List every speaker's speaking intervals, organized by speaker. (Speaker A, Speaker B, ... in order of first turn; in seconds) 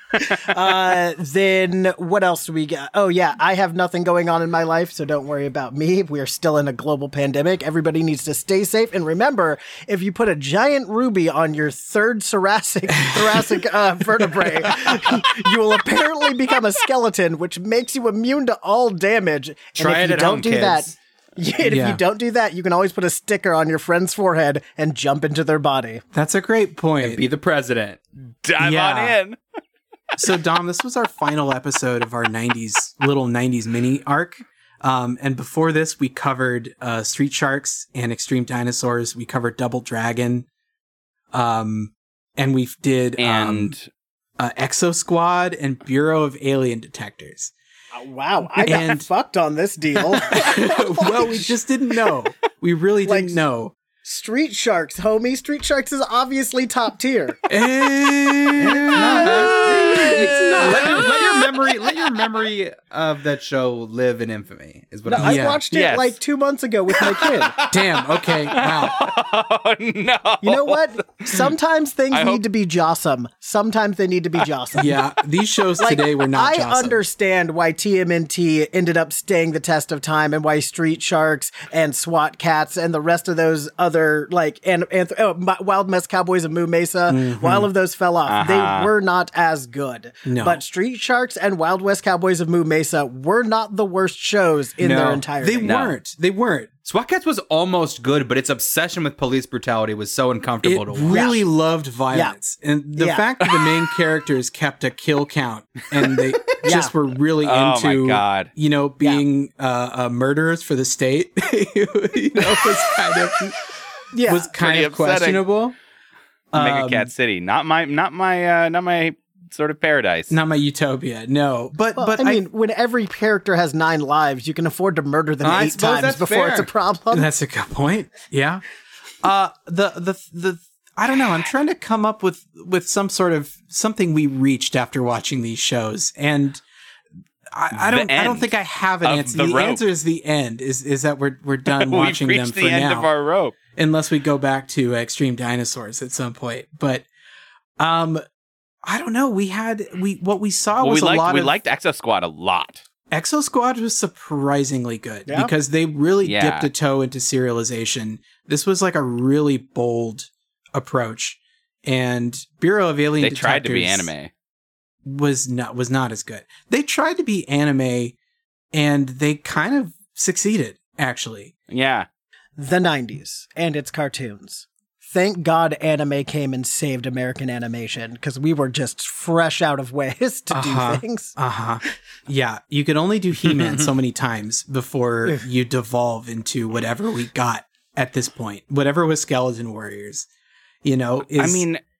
Speaker A: 0.2-0.5, 28.4-29.4, 43.2-43.9, 60.0-61.3, 65.7-66.2, 67.6-71.5, 72.1-72.4, 88.3-88.9, 95.6-95.9, 107.4-108.5, 114.6-115.5, 116.5-120.3, 137.7-138.5, 139.0-139.8, 141.7-143.6, 150.8-152.8, 156.2-156.7, 163.2-164.3, 171.7-172.1, 191.3-191.8
Speaker B: 0.2-26.0, 47.9-51.5, 53.0-53.4, 54.0-57.4, 65.1-67.5, 70.4-75.0, 75.8-95.7, 101.1-101.4, 103.0-103.2, 106.6-106.9, 114.1-114.5, 122.0-127.3, 155.3-155.5, 172.6-181.3
Speaker C: 13.1-13.4, 21.6-22.0, 26.1-27.2, 28.6-29.2, 30.2-40.5, 41.3-43.7, 44.4-47.5, 48.6-49.1, 50.4-53.8, 57.5-61.1, 65.2-65.6, 67.7-69.0, 74.8-77.0, 87.1-87.7, 90.2-90.6, 95.4-96.7, 100.6-113.6, 114.3-115.8, 116.5-117.1, 120.3-122.4, 127.1-128.6, 129.2-136.6, 137.5-143.1, 143.8-147.1, 147.8-148.2, 148.8-151.5, 153.1-164.1, 165.1-168.2, 168.7-171.5, 180.5-190.3, 190.8-191.6
Speaker D: 19.8-20.9, 27.0-28.0, 58.7-65.4, 94.8-95.2, 96.8-101.3, 125.4-126.7, 183.5-183.8